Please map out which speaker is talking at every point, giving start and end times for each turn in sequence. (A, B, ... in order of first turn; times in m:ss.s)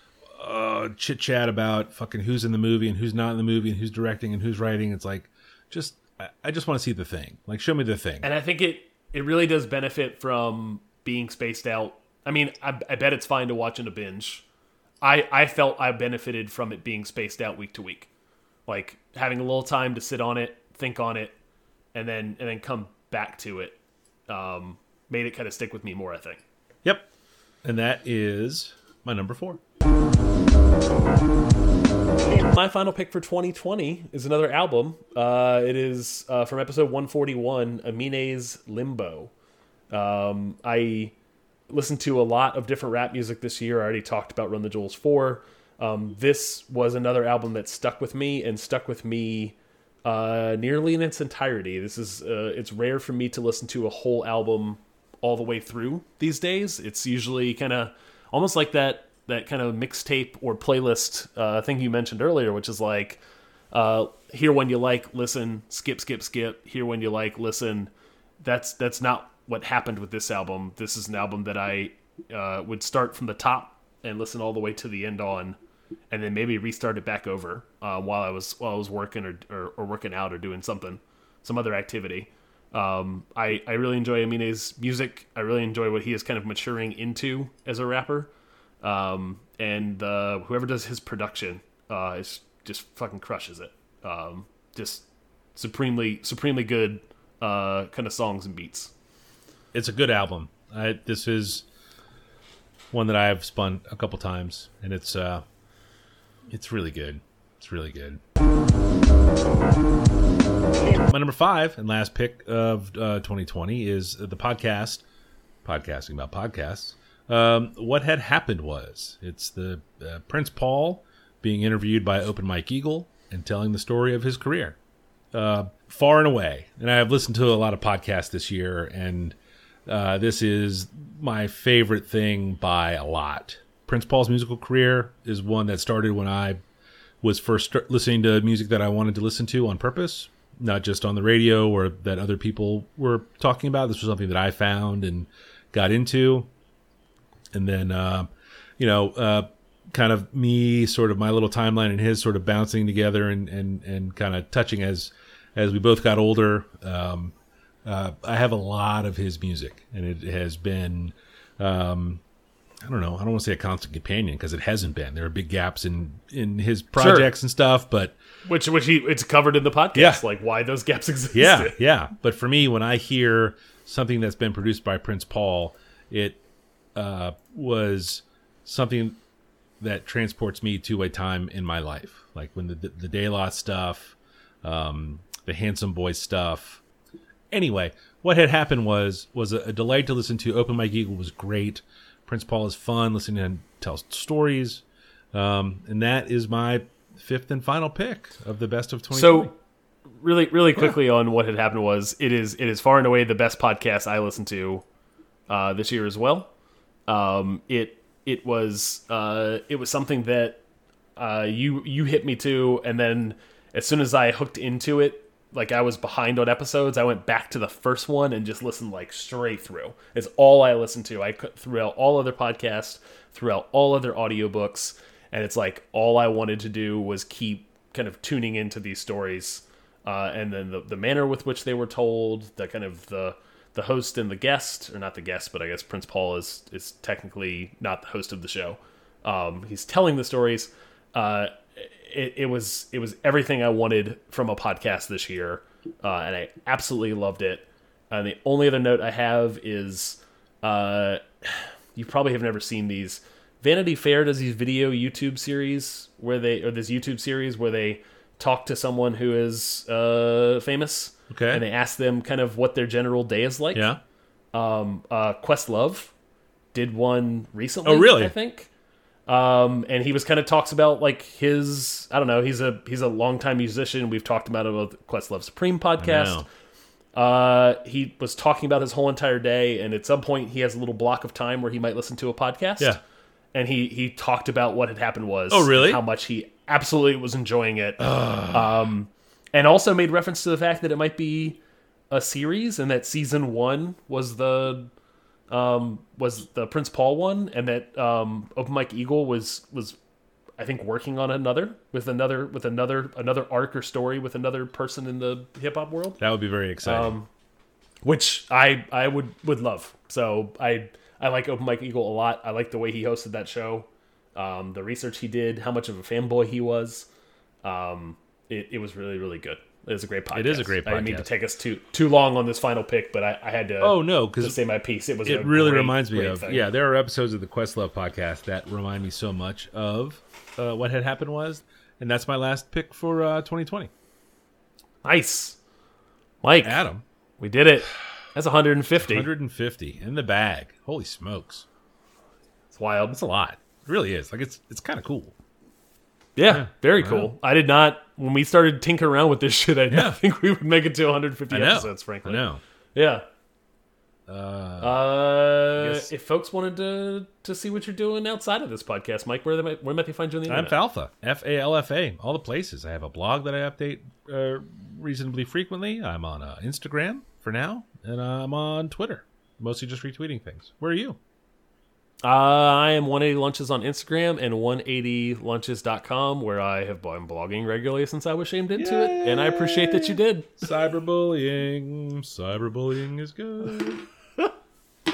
0:00.3-0:08.3 A
0:08.2-0:14.4 B
0:15.0-0:18.1 B
0:18.7-0:21.3 B
0:21.9-0:26.4 B
0:27.6-0:29.6 A
0:32.3-0:39.3 B
0:39.9-0:41.1 B
0:41.7-1:03.2 B
1:03.7-1:07.9 B
1:08.4-1:15.6 B
1:16.1-1:28.3 B
1:28.8-1:38.9 B
1:39.7-1:41.6 A
1:42.9-1:45.4 A
1:46.5-1:48.2 A
1:51.0-1:55.0 A
1:55.6-2:04.8 A
2:05.3-2:16.6 A
2:17.2-2:26.5 A
2:27.5-2:37.3 A
2:37.8-2:42.2 A
2:42.8-2:48.2 A
2:47.0-2:47.3 B
2:48.4-2:51.8 B
2:49.9-2:50.2 A
2:51.3-2:56.4 A
2:56.9-2:59.2 A
2:59.8-3:06.8 A
3:07.5-3:19.5 A
3:19.1-3:19.6 B
3:20.2-3:24.8 B
3:25.5-3:26.5 B
3:27.1-3:30.6 B
3:31.2-4:23.9 B
4:21.3-4:21.6 A
4:23.7-4:24.0 A
4:24.5-4:26.1 B
4:26.7-4:28.7 B
4:27.8-4:28.3 A
4:29.3-4:36.4 B
4:36.0-4:36.4 A
4:37.1-4:43.0 B
4:43.5-4:54.9 B
4:45.5-4:46.0 A
4:48.0-4:48.7 A
4:55.5-5:00.0 B
5:00.6-5:06.2 B
5:06.2-5:07.1 A
5:06.8-5:07.3 B
5:08.0-5:17.1 B
5:17.6-5:26.6 B
5:20.3-5:21.3 A
5:23.8-5:24.6 A
5:25.2-5:33.9 A
5:35.0-5:35.6 B
5:36.4-5:36.8 B
5:36.6-5:37.0 A
5:37.4-5:39.3 B
5:39.0-5:41.6 A
5:42.7-5:43.2 B
5:43.1-5:45.3 A
5:46.4-5:52.4 B
5:46.5-5:47.3 A
5:49.9-5:50.2 A
5:51.5-5:52.6 A
5:52.9-5:53.2 B
5:54.3-5:55.0 A
5:54.8-6:00.8 B
5:55.8-5:56.1 A
6:00.5-6:11.2 A
6:12.2-6:20.6 B
6:18.8-6:24.0 A